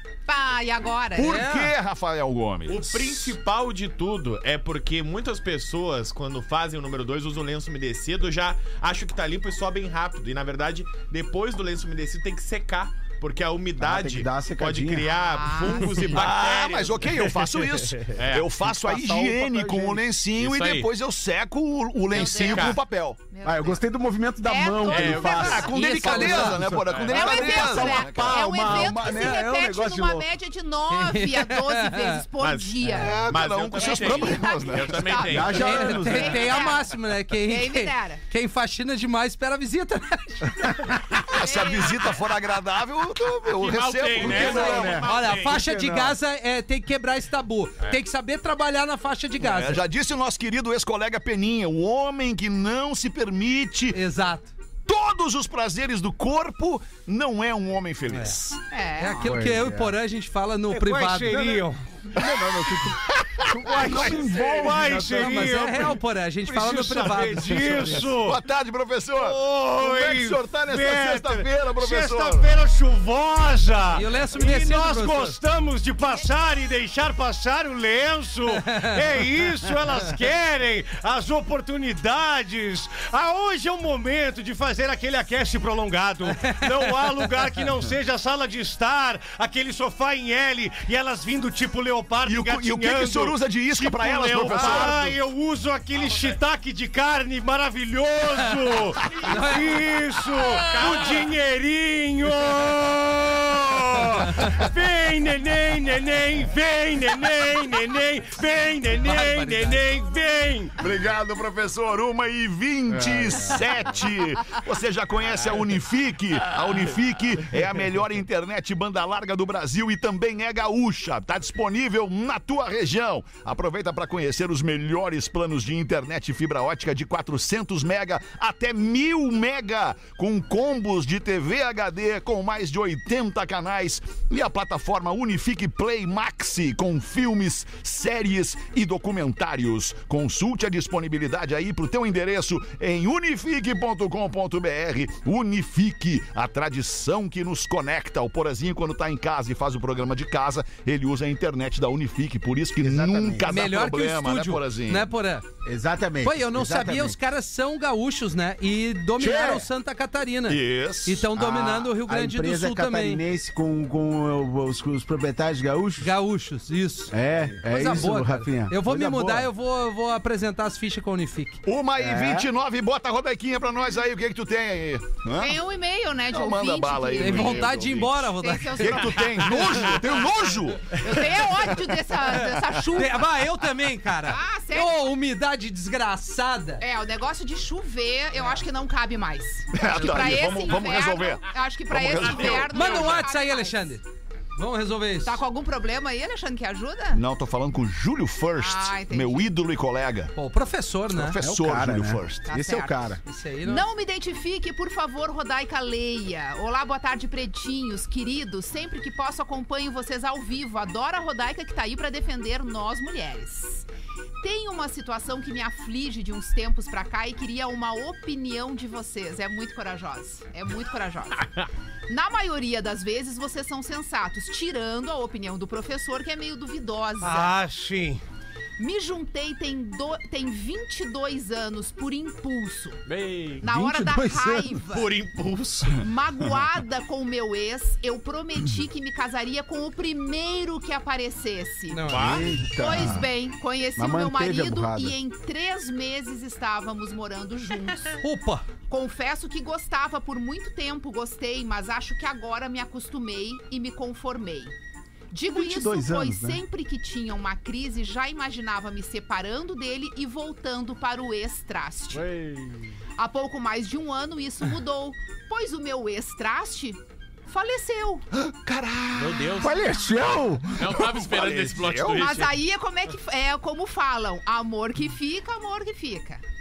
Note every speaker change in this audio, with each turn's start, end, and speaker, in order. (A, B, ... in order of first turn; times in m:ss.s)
0:00.3-0:01.5 A
0:01.2-0:03.3 B
0:01.2-0:01.7 C
0:02.7-0:17.4 D
0:13.8-0:15.1 E
0:15.2-0:16.2 A
0:16.0-0:23.2 B
0:18.0-0:18.5 D
0:18.6-0:20.1 E
0:20.4-0:20.9 D
0:22.1-0:22.8 D
0:22.1-0:22.8 A
0:23.3-0:23.8 A
0:23.4-0:30.3 E
0:24.4-0:25.9 A
0:24.9-0:25.6 D
0:25.2-0:29.5 B
0:25.7-0:26.6 C
0:26.8-0:27.2 D
0:27.1-0:38.2 A
0:30.9-0:32.2 C
0:32.4-0:35.9 D
0:32.9-0:35.3 B
0:35.3-0:36.7 E
0:35.5-0:41.0 C
0:41.1-0:45.2 B
0:41.4-0:42.2 A
0:43.6-0:45.6 D
0:44.2-0:46.2 E
0:44.3-0:49.8 C
0:49.4-0:54.0 B
0:53.9-0:54.5 C
0:54.8-0:58.5 B
0:58.1-1:01.6 C
0:58.7-0:59.4 A
0:59.2-0:59.9 E
1:00.7-1:01.8 F
1:02.1-1:05.7 E
1:03.7-1:08.4 F
1:05.0-1:08.1 C
1:08.0-1:12.5 B
1:09.1-1:33.4 F
1:13.9-1:15.4 C
1:18.6-1:18.9 C
1:32.2-1:35.2 B
1:33.8-1:35.1 D
1:34.0-1:50.8 F
1:39.1-1:39.5 D
1:39.2-1:39.6 C
1:40.6-1:41.3 D
1:49.0-1:49.8 C
1:50.8-2:35.1 B
1:52.9-1:53.6 E
2:32.8-2:33.5 E
2:33.5-2:35.4 C
2:35.6-2:37.2 E
2:36.2-2:43.2 C
2:39.2-2:39.7 E
2:40.5-2:41.3 B
2:41.3-2:46.1 E
2:46.0-2:47.1 C
2:47.1-2:49.5 E
2:47.6-2:51.6 C
2:51.6-2:55.6 B
2:52.0-2:52.5 E
2:55.4-2:57.7 A
2:56.3-3:01.7 B
2:57.2-2:59.1 C
2:58.4-3:00.1 A
3:01.0-3:03.3 A
3:02.3-3:06.8 C
3:04.2-3:05.0 A
3:06.8-3:14.0 A
3:09.7-3:13.1 B
3:09.9-3:10.4 C
3:12.2-3:12.6 D
3:12.7-3:14.0 C
3:14.6-3:15.4 C
3:15.2-3:17.2 A
3:17.1-3:20.3 B
3:18.6-3:19.5 A
3:20.3-3:21.4 C
3:21.1-3:22.5 B
3:21.4-3:23.2 E
3:22.5-3:33.8 A
3:23.2-3:23.9 C
3:34.4-3:41.5 A
3:42.1-3:47.6 A
3:47.2-3:48.2 F
3:48.8-3:53.0 A
3:53.0-3:53.6 D
3:53.6-3:54.8 E
3:53.6-3:55.1 A
3:54.9-3:56.0 D
3:56.0-4:02.1 A
4:01.9-4:02.4 C
4:02.1-4:02.4 D
4:02.1-4:03.3 E
4:02.7-4:08.2 A
4:04.0-4:05.2 E
4:08.2-4:08.6 C
4:08.9-4:14.7 A
4:15.3-4:22.3 A
4:15.4-4:16.6 E
4:22.1-4:22.7 D
4:23.2-4:28.2 A
4:28.3-4:29.7 B
4:29.1-4:30.0 D
4:29.6-4:31.0 E
4:30.7-4:32.6 D
4:31.0-4:32.3 B
4:32.1-4:36.4 A